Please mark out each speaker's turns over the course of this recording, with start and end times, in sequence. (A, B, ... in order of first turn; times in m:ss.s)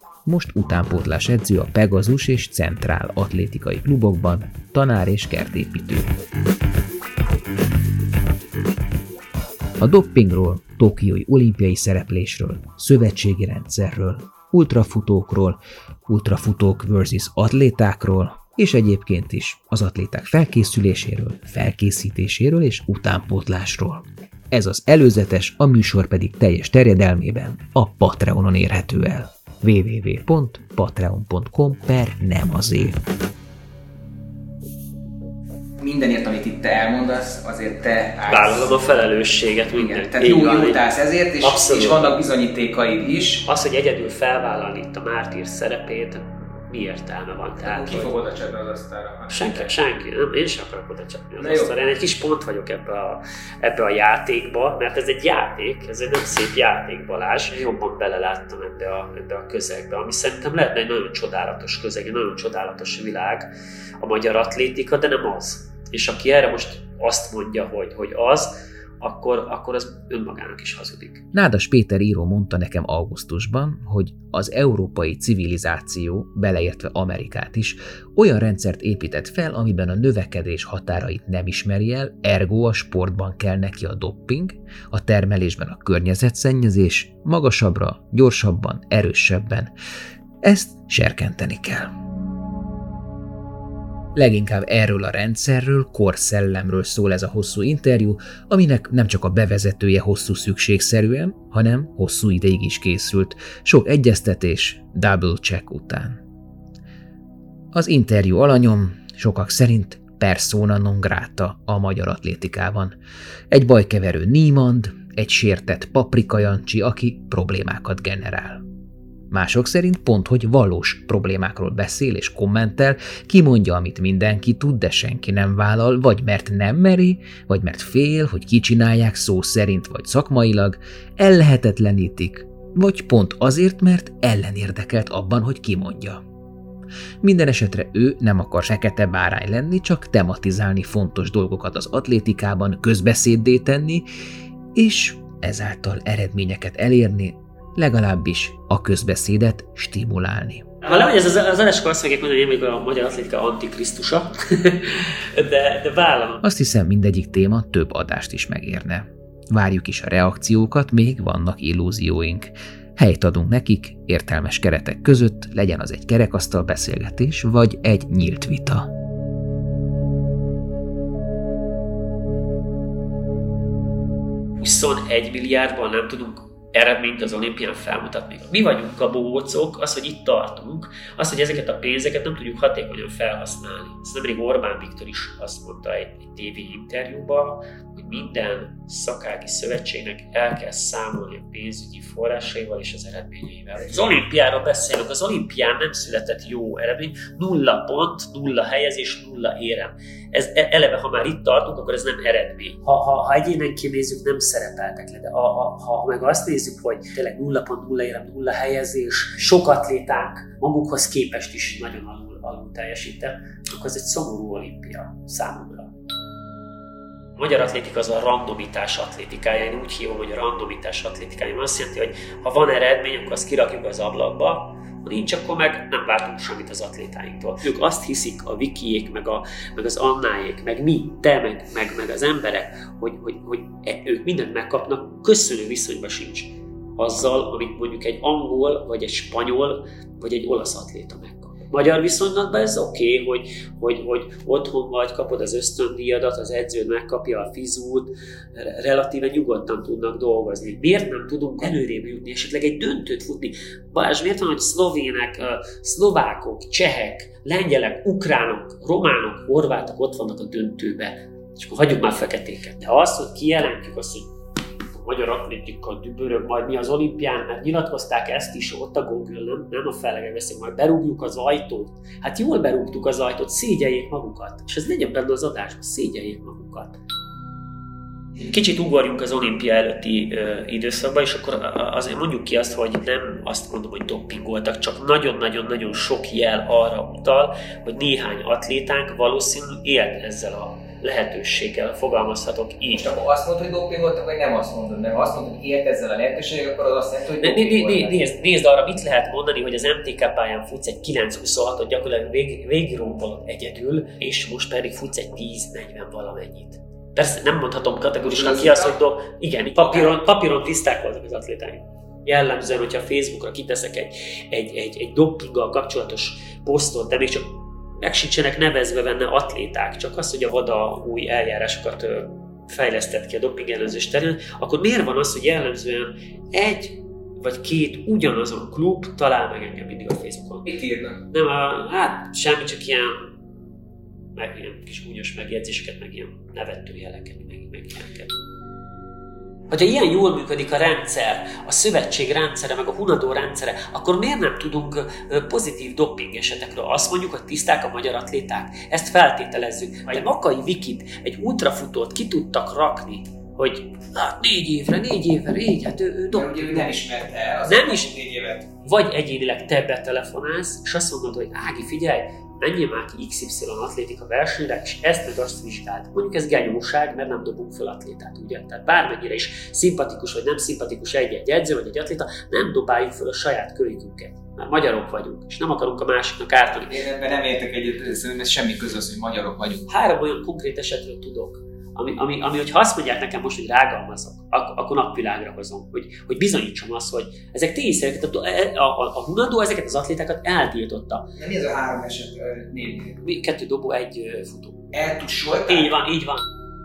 0:00.3-0:06.1 A
0:09.8-0:33.0 A
0:35.8-0:38.7 B
0:38.2-0:40.9 C
0:39.8-0:43.4 B
0:41.4-0:42.2 C
0:43.4-0:48.2 C
0:47.7-0:49.6 B
0:49.3-1:03.5 C
0:51.4-0:51.7 B
1:04.0-1:11.2 C
1:11.3-1:29.7 A
1:30.4-1:31.9 A
1:34.2-1:46.2 A
1:47.7-1:53.0 A
1:53.5-1:58.6 A
1:59.3-2:16.2 A
2:17.2-2:24.1 A
2:24.8-2:30.7 A
2:30.8-2:36.4 C
2:36.4-2:48.9 A
2:54.6-3:35.9 C
3:37.4-4:24.3 C
4:24.9-4:37.0 C
4:38.4-4:53.1 C
4:53.0-4:58.0 B
4:55.2-4:56.4 A
4:57.4-5:30.8 C
4:57.7-4:58.0 A
5:08.3-5:08.7 A
5:30.7-5:31.2 B
5:31.3-5:33.3 C
5:34.4-5:38.3 C
5:39.7-5:57.1 C
5:56.3-5:58.6 B
5:56.5-5:57.1 A
5:57.6-5:58.1 C
5:58.8-6:17.0 C
6:16.9-6:19.8 B
6:18.2-6:18.7 A
6:19.2-6:19.5 A
6:19.9-6:31.3 C
6:31.4-6:33.1 B
6:33.2-6:36.4 C
6:34.9-6:35.9 B